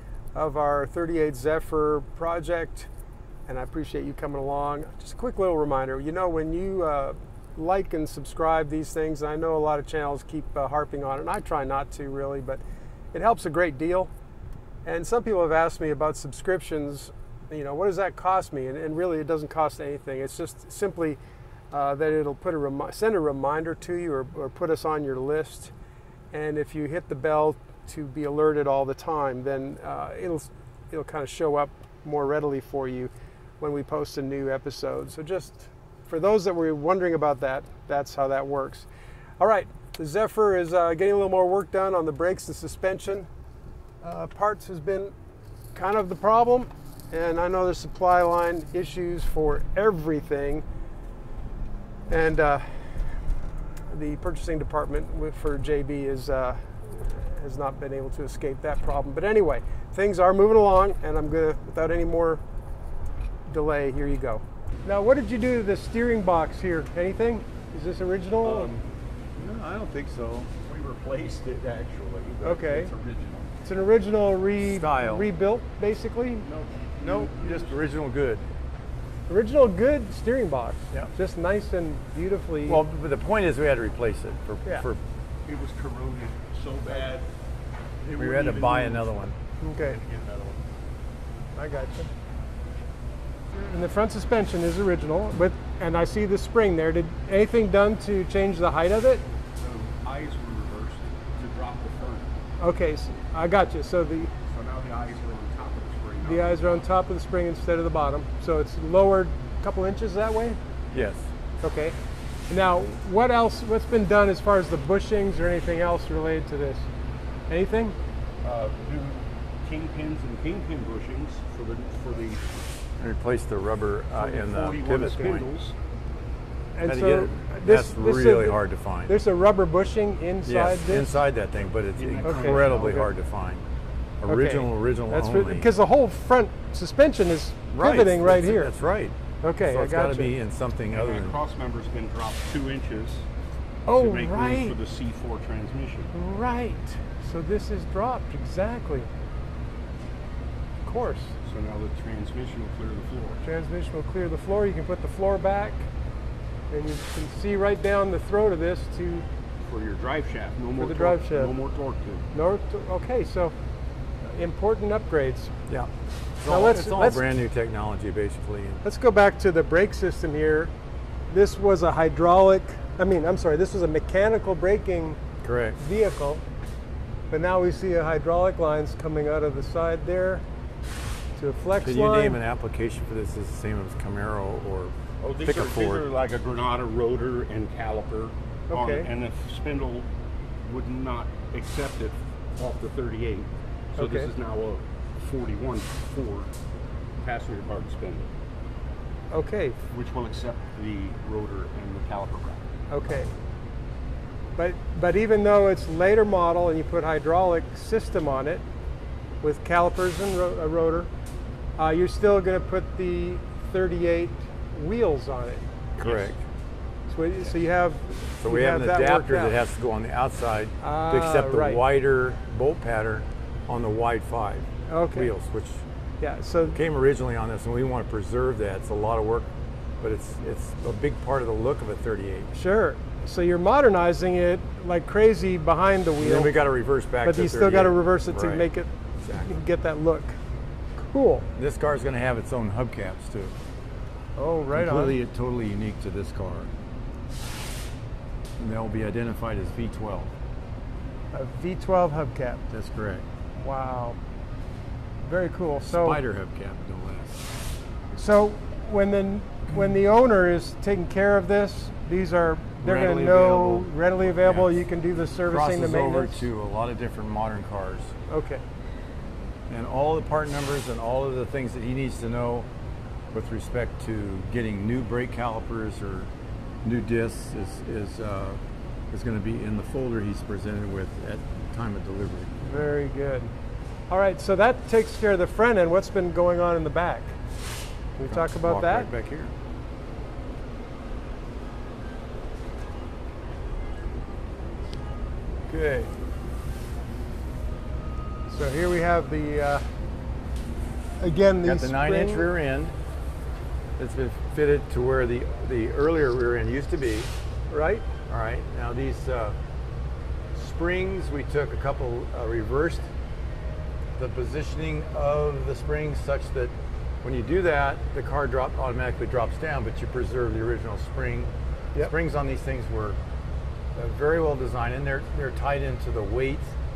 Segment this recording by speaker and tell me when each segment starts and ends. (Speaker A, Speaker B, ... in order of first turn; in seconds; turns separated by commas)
Speaker A: 0.3-2.9, Speaker A: 3.5-12.6, Speaker A: 13.1-14.1, Speaker A: 14.8-21.2, Speaker A: 21.7-25.7, Speaker A: 26.3-38.9, Speaker A: 39.4-43.3, Speaker A: 44.0-45.1, Speaker A: 45.7-50.6, Speaker A: 52.1-53.3, Speaker A: 53.9-62.4, Speaker A: 63.5-68.7, Speaker B: 68.4-68.8, Speaker B: 69.4-70.5, Speaker C: 70.6-73.5, Speaker A: 72.4-72.9, Speaker A: 73.6-76.5, Speaker B: 74.6-75.3, Speaker C: 76.4-77.8, Speaker B: 77.0-78.5, Speaker A: 79.3-82.8, Speaker B: 82.7-85.0, Speaker C: 85.5-87.3, Speaker C: 88.0-89.1, Speaker B: 88.2-89.4, Speaker A: 89.6-90.0, Speaker C: 89.8-90.6, Speaker A: 91.5-92.1, Speaker A: 93.5-99.2, Speaker C: 99.6-102.3, Speaker A: 102.6-104.3, Speaker C: 104.5-106.8, Speaker A: 106.2-110.6, Speaker B: 110.9-111.3, Speaker A: 111.6-112.0, Speaker A: 112.5-116.9, Speaker A: 117.5-118.0, Speaker C: 118.4-122.5, Speaker B: 123.0-125.5, Speaker C: 124.1-125.7, Speaker A: 126.7-131.2, Speaker B: 126.9-129.1, Speaker B: 130.4-133.6, Speaker C: 131.7-133.1, Speaker A: 132.2-133.0, Speaker B: 134.2-135.7, Speaker A: 134.3-138.7, Speaker B: 137.7-141.4, Speaker A: 139.4-140.3, Speaker C: 140.9-143.3, Speaker A: 143.9-144.8, Speaker C: 143.9-146.1, Speaker A: 146.1-149.1, Speaker A: 150.8-151.4, Speaker C: 151.4-153.4, Speaker A: 153.4-155.9, Speaker A: 156.7-159.3, Speaker C: 159.6-162.3, Speaker A: 160.8-161.6, Speaker A: 162.3-163.6, Speaker A: 164.2-165.5, Speaker B: 165.7-168.8, Speaker A: 166.5-167.2, Speaker A: 168.8-170.7, Speaker A: 171.3-175.2, Speaker B: 175.4-175.8, Speaker A: 175.8-176.4, Speaker A: 177.3-180.4, Speaker A: 181.3-182.4, Speaker B: 181.8-186.1, Speaker C: 185.2-190.1, Speaker A: 188.7-189.1, Speaker C: 190.7-196.5, Speaker A: 194.0-194.3, Speaker C: 197.2-198.3, Speaker A: 199.3-199.8, Speaker C: 199.9-202.6, Speaker A: 202.9-203.3, Speaker A: 204.6-208.6, Speaker A: 209.4-211.1, Speaker A: 211.8-215.7, Speaker B: 216.0-216.4, Speaker C: 216.0-216.3, Speaker A: 217.1-219.6, Speaker B: 218.4-225.8, Speaker A: 220.8-221.8, Speaker A: 224.9-225.3, Speaker A: 226.2-226.8, Speaker B: 226.7-229.5, Speaker B: 230.0-232.5, Speaker A: 232.5-236.6, Speaker B: 236.2-238.7, Speaker A: 237.2-240.4, Speaker B: 239.2-239.5, Speaker A: 240.9-241.5, Speaker B: 241.6-243.6, Speaker A: 244.4-245.2, Speaker B: 244.7-246.7, Speaker B: 248.6-250.3, Speaker A: 251.3-252.6, Speaker B: 252.7-253.2, Speaker A: 253.6-254.2, Speaker A: 255.2-256.2, Speaker B: 255.8-257.4, Speaker A: 258.1-266.5, Speaker B: 262.8-263.9, Speaker B: 264.4-264.8, Speaker B: 265.5-268.1, Speaker A: 268.3-268.6, Speaker B: 269.7-272.7, Speaker B: 273.3-276.3, Speaker B: 276.8-278.6, Speaker B: 279.1-282.6, Speaker A: 282.6-283.5, Speaker A: 284.1-287.4, Speaker A: 288.2-289.1, Speaker B: 288.3-289.5, Speaker B: 295.7-296.1, Speaker A: 298.5-299.9, Speaker A: 301.2-302.5, Speaker B: 301.6-302.9, Speaker B: 304.0-307.3, Speaker A: 307.7-308.0, Speaker B: 308.3-309.6, Speaker B: 310.5-313.1, Speaker B: 314.2-323.2, Speaker B: 323.9-326.7